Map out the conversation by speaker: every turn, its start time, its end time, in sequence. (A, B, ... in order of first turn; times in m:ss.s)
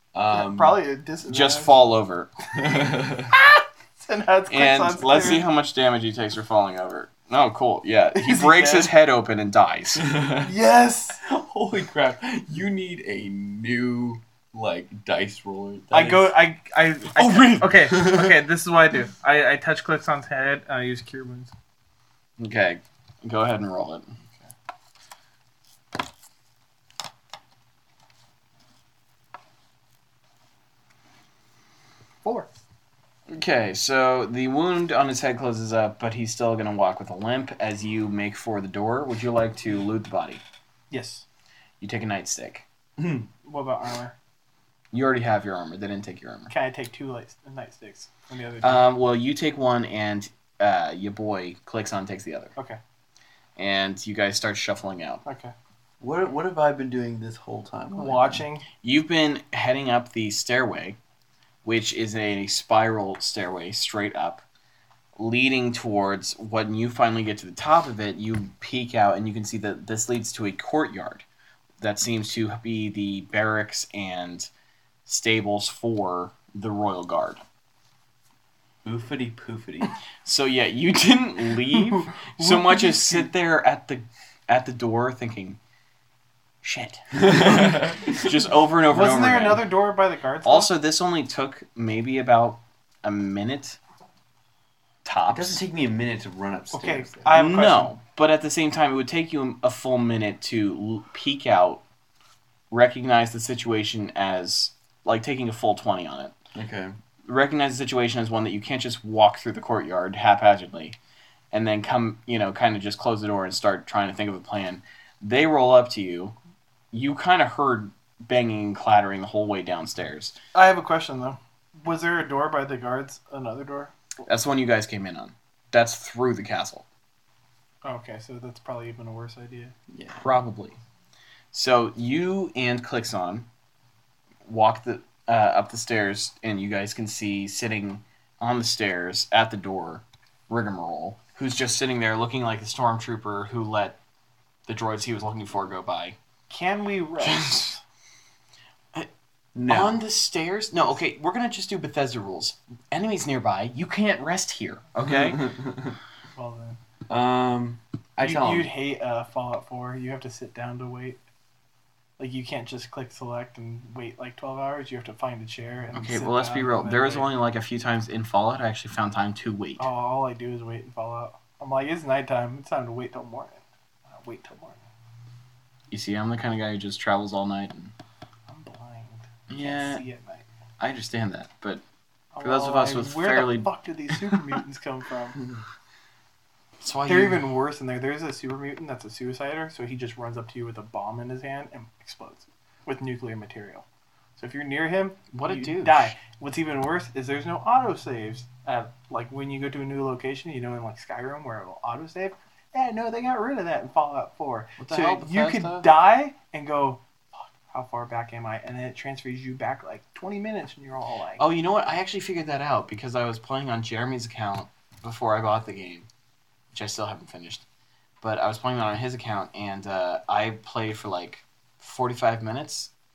0:00.1-0:00.8 A
0:00.3-0:01.8 B
0:01.3-0:02.3 C
0:02.5-0:03.3 A
0:03.3-0:05.4 B
0:04.5-0:10.1 C
0:08.1-0:08.9 B
0:10.0-0:10.5 A
0:10.4-0:11.2 B
0:11.2-0:16.3 A
0:15.9-0:21.5 B
0:17.2-0:17.7 C
0:17.7-0:18.4 A
0:22.4-0:24.1 C
0:33.3-0:40.4 C
0:40.9-0:41.2 B
0:41.8-0:42.6 C
0:43.0-0:43.2 A
0:43.4-0:44.1 B
0:44.9-0:46.5 C
0:46.5-0:48.9 B
0:48.6-0:52.5 C
0:53.6-0:55.2 C
0:55.2-0:55.5 B
0:56.0-0:58.4 A
0:57.9-0:58.6 B
0:58.8-1:01.0 C
1:01.6-1:04.4 C
1:05.2-1:11.2 C
1:11.8-1:14.5 C
1:15.0-1:17.4 C
1:18.8-1:19.9 A
1:20.2-1:25.6 C
1:22.4-1:23.3 B
1:26.6-1:29.6 C
1:27.2-1:28.2 A
1:28.9-1:30.7 B
1:30.4-1:33.8 C
1:35.0-1:35.6 C
1:35.3-1:37.4 A
1:36.7-1:38.0 B
1:37.3-1:41.8 C
1:42.7-1:46.3 C
1:46.5-1:46.9 A
1:47.2-1:51.0 C
1:51.5-1:56.3 C
1:56.9-2:00.4 C
2:00.5-2:03.9 B
2:04.2-2:06.8 C
2:07.8-2:09.7 B
2:09.9-2:10.3 A
2:10.1-2:10.8 C
2:11.5-2:13.5 C
2:14.4-2:24.0 C
2:24.7-2:26.2 C
2:26.5-2:27.7 B
2:27.2-2:27.8 C
2:29.5-2:30.0 A
2:29.7-2:35.5 C
2:35.0-2:35.9 A
2:36.3-2:36.8 B
2:37.1-2:38.7 A
2:38.2-2:41.2 B
2:42.2-2:47.3 B
2:45.9-2:49.9 C
2:49.8-2:54.9 B
2:55.9-2:57.9 C
2:58.5-3:00.4 B
2:59.5-3:00.0 C
3:00.8-3:01.8 C
3:02.3-3:05.4 B
3:02.4-3:03.7 C
3:06.8-3:07.4 C
3:07.1-3:13.8 B
3:14.4-3:27.0 B
3:15.3-3:16.1 C
3:24.8-3:25.9 C
3:27.7-3:31.4 B
3:31.4-3:36.1 C
3:36.7-3:37.6 C
3:38.2-3:42.9 C